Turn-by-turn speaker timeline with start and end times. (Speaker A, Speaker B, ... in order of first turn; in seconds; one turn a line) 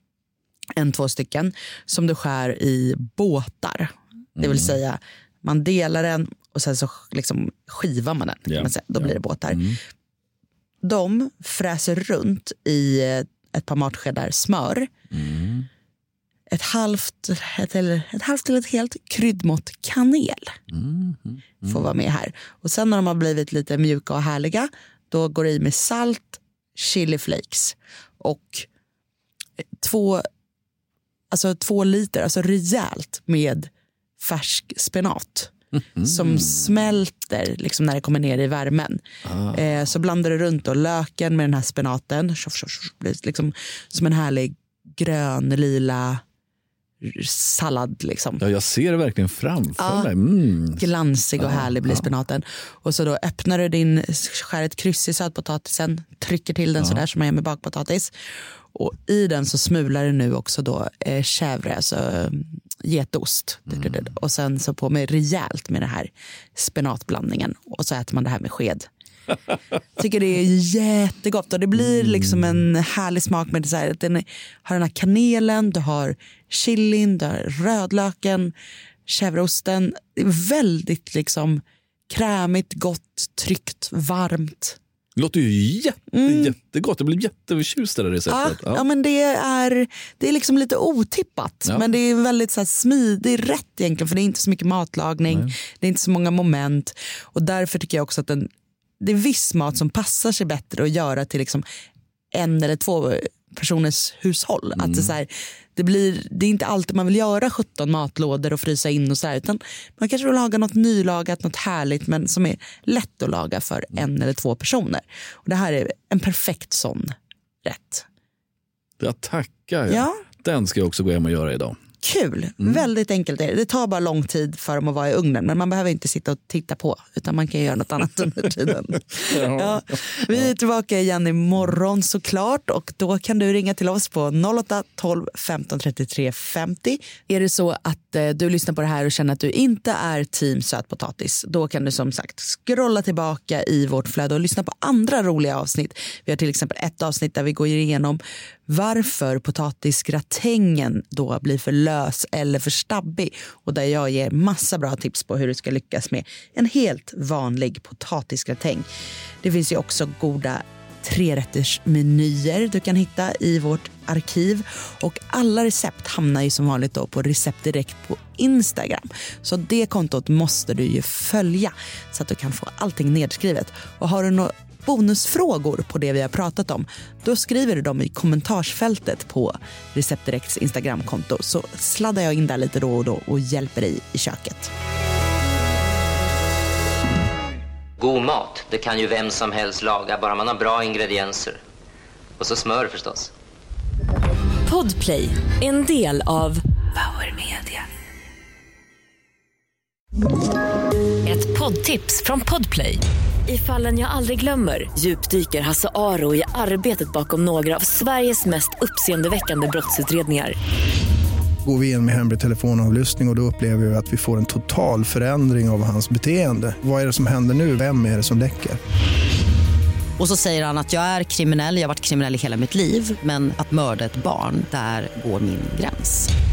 Speaker A: 0.8-9.6
Speaker B: 4.4-4.7
Speaker B: 8.5-9.8
Speaker A: 10.8-14.9
Speaker B: 15.1-15.7
Speaker A: 16.5-20.6
Speaker B: 20.7-21.7
Speaker A: 21.6-28.7
Speaker A: 29.8-30.2
Speaker A: 31.3-46.2
Speaker B: 39.2-39.6
Speaker A: 47.0-48.4
Speaker B: 48.4-50.8
Speaker A: 49.8-50.1
Speaker A: 50.8-58.1
Speaker B: 51.4-52.1
Speaker A: 58.7-68.9
Speaker A: 70.0-78.5
Speaker A: 79.1-84.8
Speaker B: 85.2-88.8
Speaker A: 86.1-86.5
Speaker A: 88.3-98.5
Speaker B: 95.3-95.5
Speaker A: 99.0-101.6
Speaker A: 102.3-117.1
Speaker A: 117.7-118.1
Speaker B: 119.0-121.8
Speaker A: 122.0-158.9
Speaker B: 129.3-129.9
Speaker A: 159.4-184.7
Speaker C: 188.0-191.6
Speaker C: 192.4-193.3
Speaker D: 194.7-197.8
Speaker D: 201.2-210.6
Speaker E: 211.7-218.8
Speaker F: 220.2-226.3